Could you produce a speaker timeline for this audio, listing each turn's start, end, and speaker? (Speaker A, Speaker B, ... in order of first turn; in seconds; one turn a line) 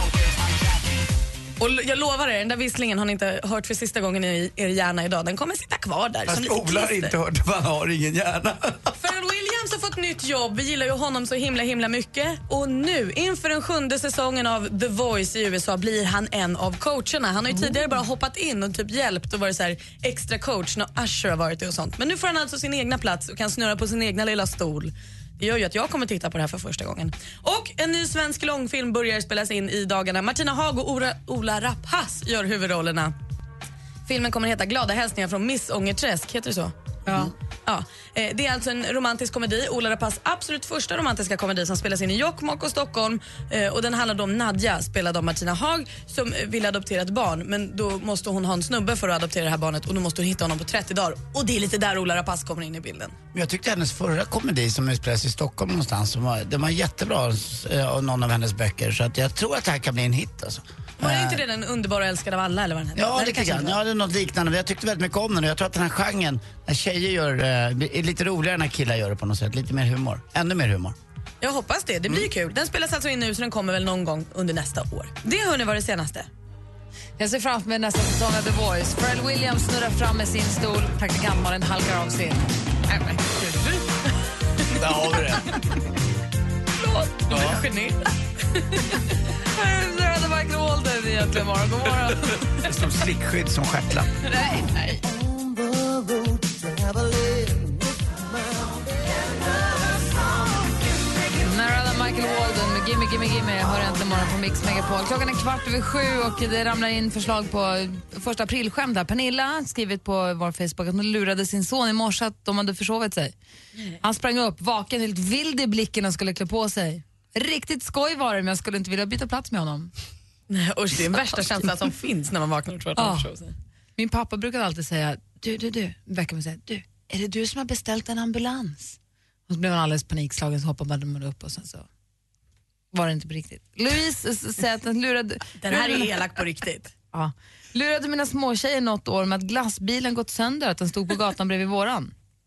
Speaker A: 1.6-7.2
Speaker B: 6.3-8.9
Speaker A: 9.0-33.1
Speaker A: 34.1-36.7
Speaker A: 37.6-53.1
Speaker B: 53.3-61.4
Speaker A: 61.0-63.8
Speaker B: 63.0-71.0
Speaker A: 71.4-76.3
Speaker C: 77.2-82.5
Speaker A: 82.9-83.8
Speaker B: 84.8-85.5
Speaker C: 86.8-87.2
Speaker A: 87.3-88.8
Speaker B: 87.3-87.6
Speaker C: 89.5-92.4
Speaker B: 92.6-94.1
Speaker C: 94.4-95.0
Speaker C: 101.4-113.3
Speaker C: 114.0-119.9
Speaker A: 120.5-123.5
Speaker C: 123.0-123.3
Speaker C: 124.0-129.0
Speaker C: 129.5-131.9
Speaker C: 132.9-136.0
Speaker A: 135.6-136.9
Speaker C: 137.1-142.1